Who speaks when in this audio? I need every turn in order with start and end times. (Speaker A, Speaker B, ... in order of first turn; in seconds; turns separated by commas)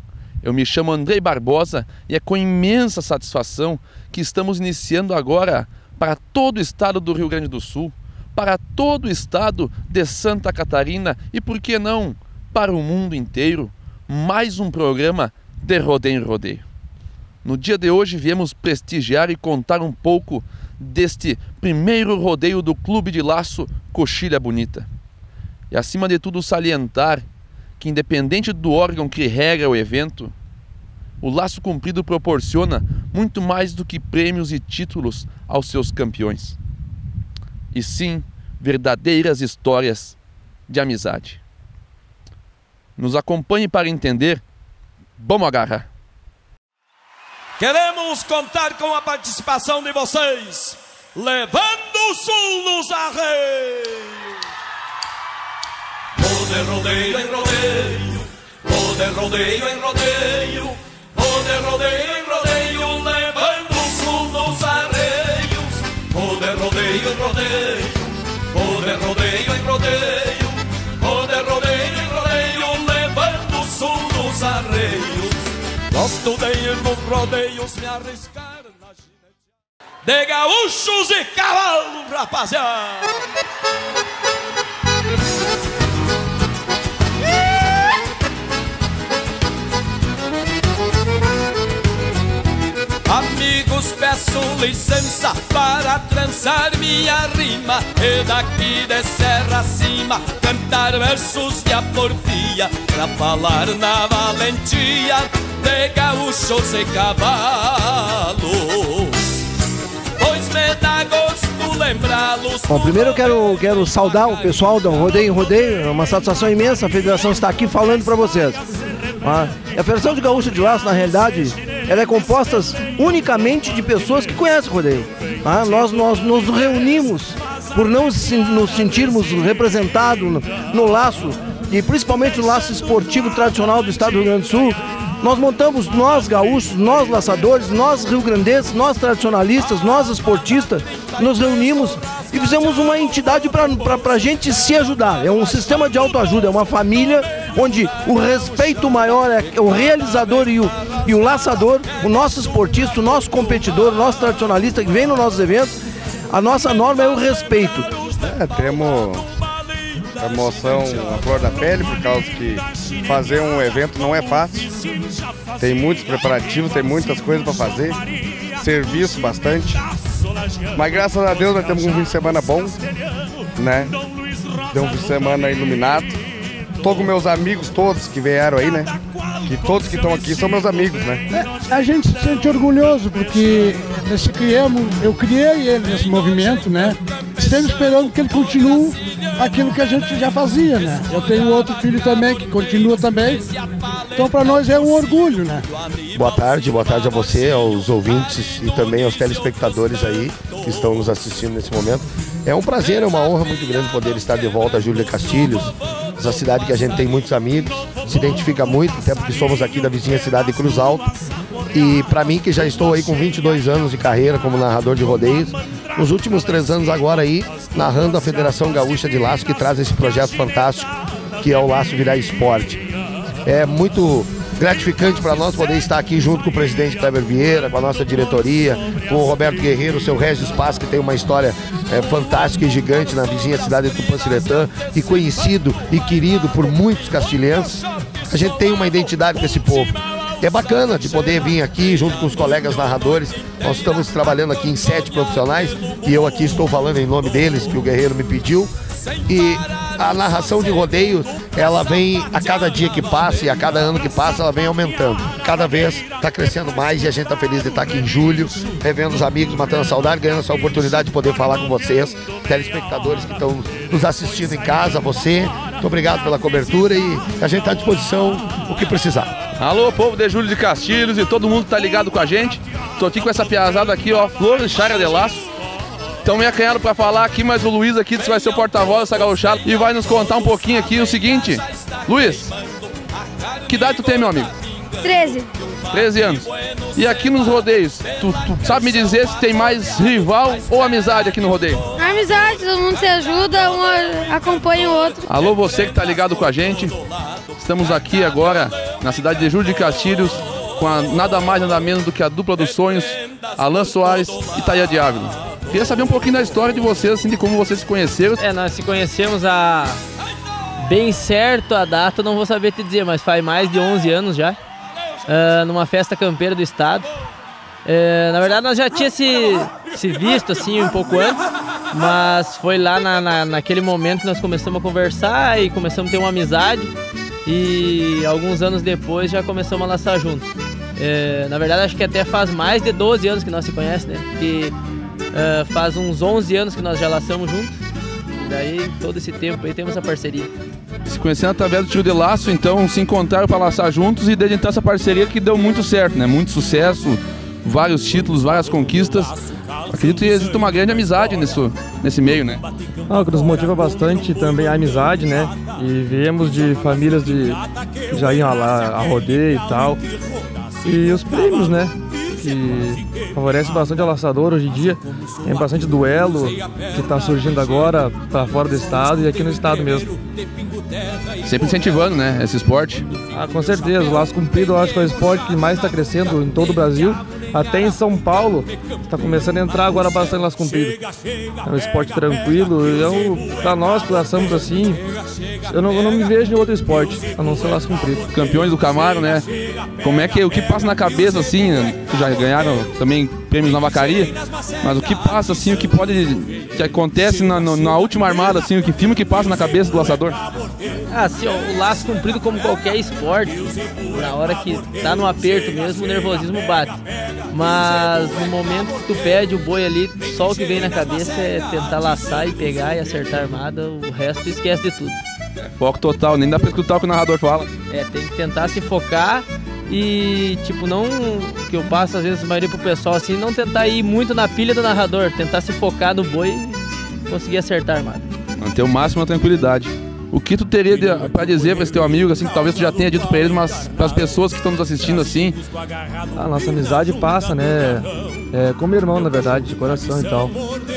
Speaker A: 0.4-16.6, Speaker A: 17.4-24.9, Speaker A: 25.7-27.2, Speaker A: 27.8-30.3, Speaker A: 31.2-36.6, Speaker A: 37.7-40.1, Speaker A: 40.7-41.4, Speaker A: 43.0-44.4, Speaker A: 45.2-45.9, Speaker B: 47.6-54.2, Speaker B: 56.2-67.9, Speaker B: 68.5-75.3, Speaker B: 75.9-79.0, Speaker B: 80.0-83.2, Speaker B: 93.1-109.2, Speaker B: 110.2-112.8, Speaker C: 112.7-118.6, Speaker C: 119.2-155.8, Speaker C: 156.3-157.9, Speaker D: 158.2-159.2, Speaker D: 160.2-164.7, Speaker D: 165.6-168.0, Speaker D: 168.6-169.8, Speaker D: 170.7-172.8, Speaker D: 173.6-173.9, Speaker D: 174.7-176.2, Speaker D: 176.8-181.2, Speaker E: 181.3-193.4, Speaker E: 194.1-195.7, Speaker F: 196.1-211.1, Speaker F: 211.7-222.8, Speaker F: 223.4-248.7, Speaker F: 249.2-269.3, Speaker A: 269.6-275.5, Speaker A: 276.2-282.5, Speaker A: 283.7-284.5, Speaker G: 285.0-285.5, Speaker A: 285.9-291.8, Speaker G: 291.9-295.3, Speaker A: 295.2-297.0, Speaker A: 297.6-308.4, Speaker H: 308.4-310.0, Speaker H: 310.8-314.6, Speaker H: 315.2-317.1, Speaker H: 317.8-326.9, Speaker H: 327.4-334.7, Speaker H: 335.3-337.8, Speaker H: 338.3-340.5, Speaker A: 341.1-349.3, Speaker A: 349.9-352.6, Speaker I: 353.1-360.0, Speaker I: 360.8-370.2, Speaker A: 371.4-373.1, Speaker I: 373.3-381.0, Speaker I: 381.6-385.0, Speaker I: 385.7-388.3, Speaker A: 388.3-389.4, Speaker A: 390.0-400.4, Speaker H: 401.1-415.2, Speaker A: 415.8-417.7, Speaker H: 417.9-428.3, Speaker A: 428.6-435.6, Speaker I: 436.4-440.5